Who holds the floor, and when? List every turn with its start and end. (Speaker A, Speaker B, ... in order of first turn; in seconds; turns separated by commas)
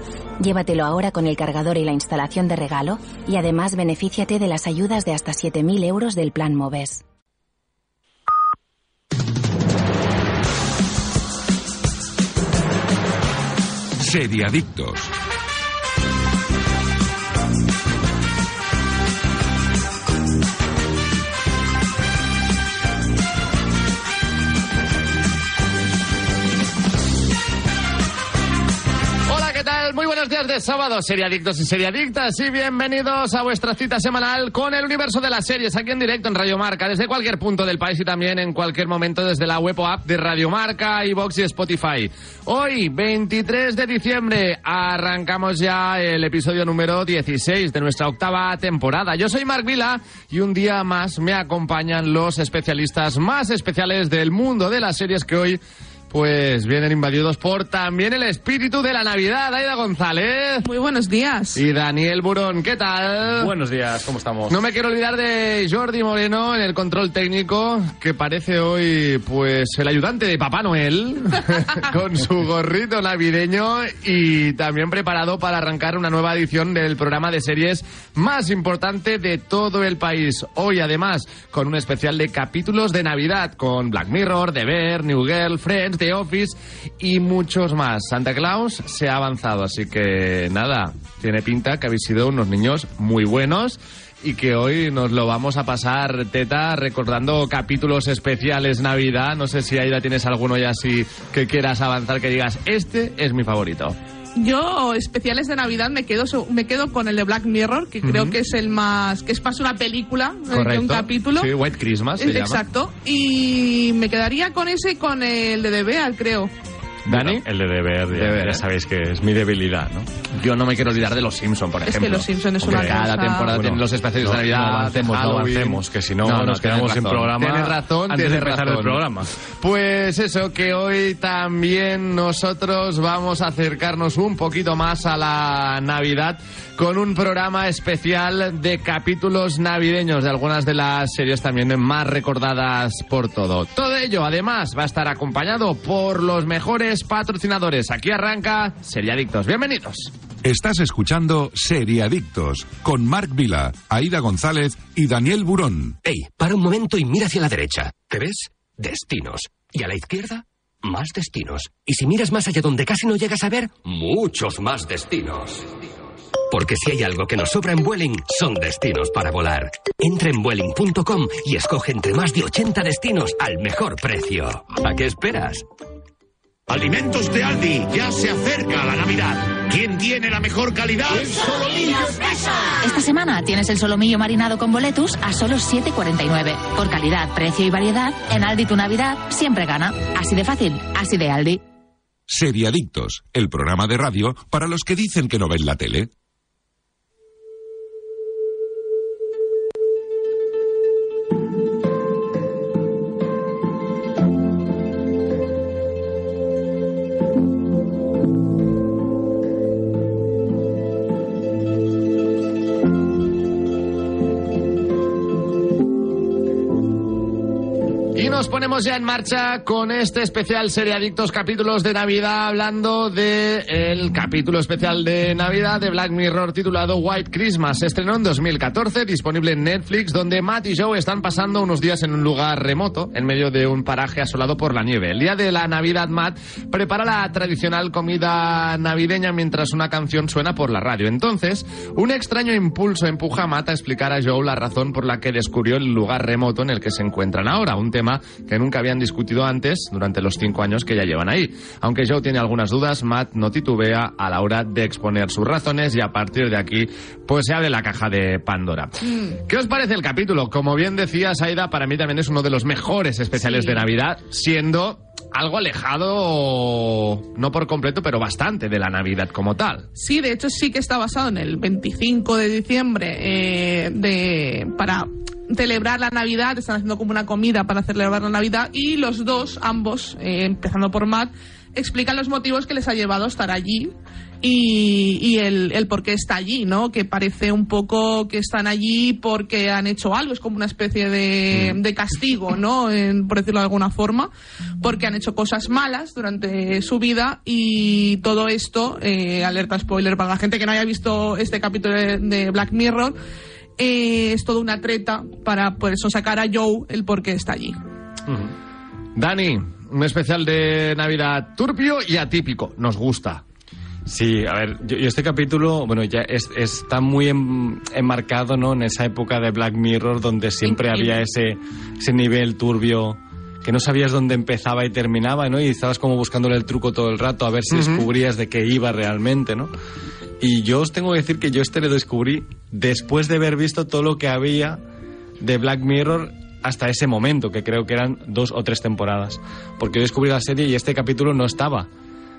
Speaker A: 0.4-7.0, Speaker B: 14.0-15.1, Speaker C: 29.3-60.7, Speaker D: 60.6-61.6, Speaker C: 61.5-63.5, Speaker E: 63.4-64.6, Speaker C: 64.5-104.0, Speaker D: 104.4-111.5, Speaker C: 108.0-108.4, Speaker C: 110.5-112.6, Speaker D: 112.2-116.5, Speaker E: 117.1-120.1, Speaker C: 117.1-117.4, Speaker C: 118.1-118.6, Speaker C: 120.4-129.0, Speaker D: 121.8-123.6, Speaker E: 122.7-123.0, Speaker E: 123.5-129.3, Speaker C: 129.6-150.1, Speaker B: 150.4-156.0, Speaker F: 156.0-165.7, Speaker F: 166.5-175.7, Speaker G: 176.7-182.3, Speaker H: 182.8-191.6, Speaker B: 192.3-196.1, Speaker C: 218.2-269.9, Speaker D: 259.1-259.4, Speaker D: 263.5-263.8, Speaker D: 269.9-294.3, Speaker D: 294.8-303.2, Speaker D: 303.8-307.8, Speaker C: 309.2-313.4, Speaker E: 314.1-329.7, Speaker D: 320.6-321.1, Speaker C: 327.7-328.1, Speaker E: 330.4-334.8, Speaker E: 335.4-341.9